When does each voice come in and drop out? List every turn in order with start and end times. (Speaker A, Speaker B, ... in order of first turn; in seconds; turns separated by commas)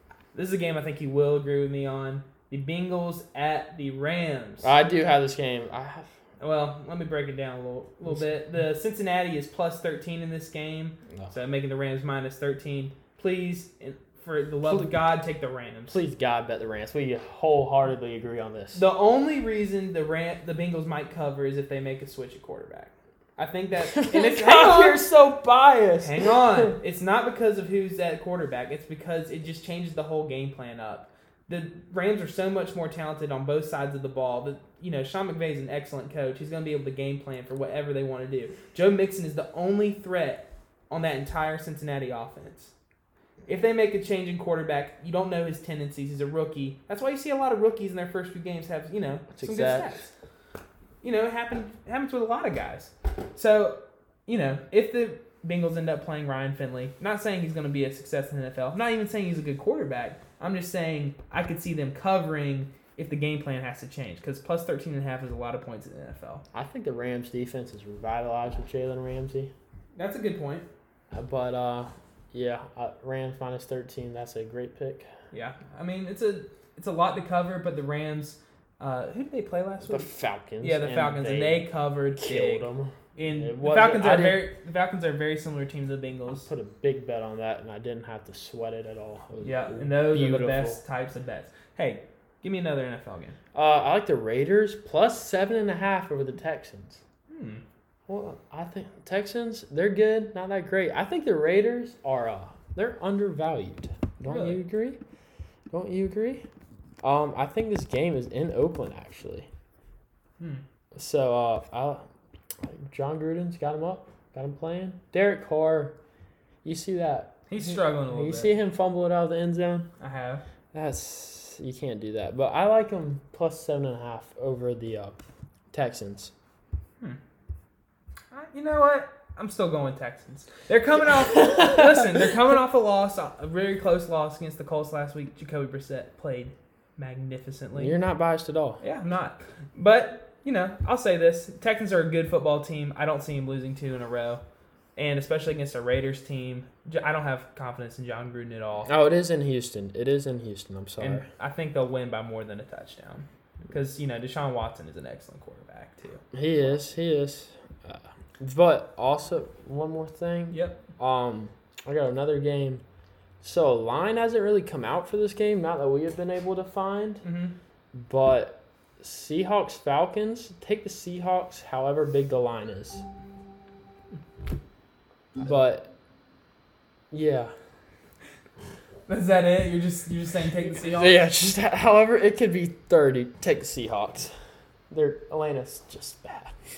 Speaker A: 0.3-4.8, Speaker B: 4.6-6.1, Speaker A: 6.4-16.0, Speaker B: 14.6-14.9, Speaker B: 15.9-18.8, Speaker A: 18.7-25.0, Speaker B: 23.9-26.7, Speaker A: 26.0-42.7, Speaker A: 43.5-50.1, Speaker B: 49.3-50.0, Speaker A: 51.0-66.4, Speaker B: 66.5-69.5, Speaker A: 69.9-70.7, Speaker B: 71.1-75.1, Speaker A: 75.3-80.1, Speaker B: 79.8-84.4, Speaker A: 80.6-86.5, Speaker B: 86.4-90.8, Speaker A: 89.4-93.3, Speaker B: 93.5-97.0, Speaker A: 97.3-97.6, Speaker B: 98.1-105.0, Speaker A: 104.2-104.6, Speaker B: 105.7-106.5, Speaker B: 107.0-109.5, Speaker B: 110.9-112.0, Speaker B: 112.6-116.0, Speaker B: 116.6-119.9, Speaker A: 117.5-118.5, Speaker A: 120.0-120.4, Speaker B: 120.7-125.2, Speaker B: 125.7-126.3, Speaker A: 128.3-137.9, Speaker B: 131.3-132.1, Speaker B: 137.8-138.8, Speaker A: 138.8-144.4, Speaker A: 144.9-148.9, Speaker B: 148.8-151.2, Speaker A: 151.0-156.2, Speaker B: 156.3-162.8, Speaker A: 160.5-160.8, Speaker B: 163.4-167.2, Speaker A: 167.2-167.6, Speaker B: 167.9-173.0, Speaker B: 175.4-175.9, Speaker B: 177.1-177.5, Speaker A: 179.1-181.2, Speaker B: 180.7-184.3, Speaker B: 184.9-186.5